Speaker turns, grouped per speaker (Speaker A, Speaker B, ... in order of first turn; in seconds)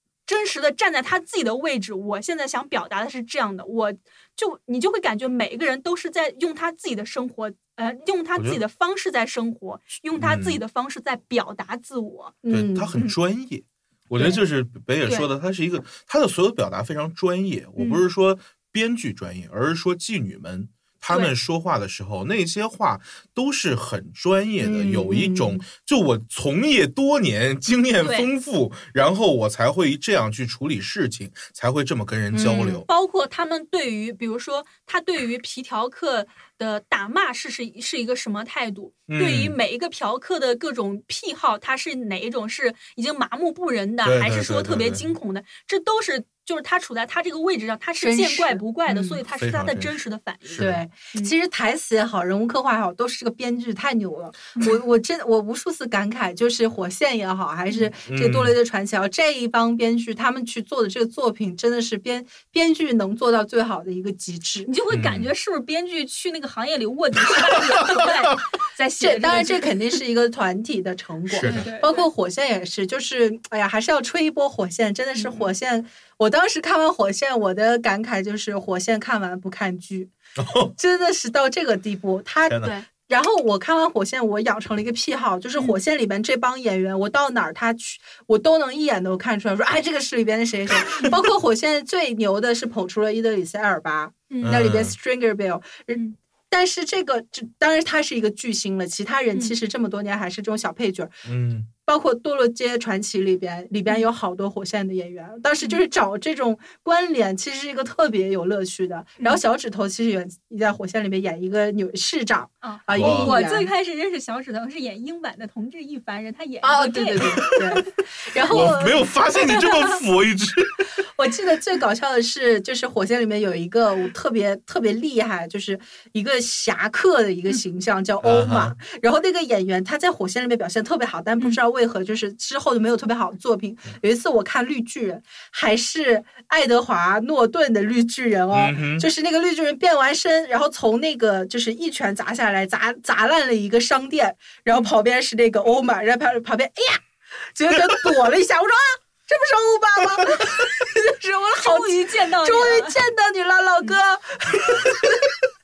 Speaker A: 0.2-12.4, 28.0-28.3, 32.9-51.3, 64.7-69.7, 71.4-72.1, 75.2-75.5, 82.6-82.9, 94.3-94.5, 112.6-117.5, 151.2-153.0
Speaker B: 10.2-10.6, 12.5-32.9, 39.1-39.5, 44.0-45.1, 49.3-50.0, 50.6-50.8, 58.1-58.6, 64.9-65.3, 71.3-71.7, 80.4-80.7, 82.5-82.7, 94.4-95.0, 101.2-101.7, 112.9-113.3, 118.4-120.9, 128.2-128.8, 138.5-139.1
Speaker C: 12.4-12.9, 24.6-25.6, 32.3-32.8, 48.0-49.2, 50.6-64.7, 69.0-80.1, 80.8-101.2, 101.8-113.7, 116.6-119.1, 121.2-147.0, 147.5-155.3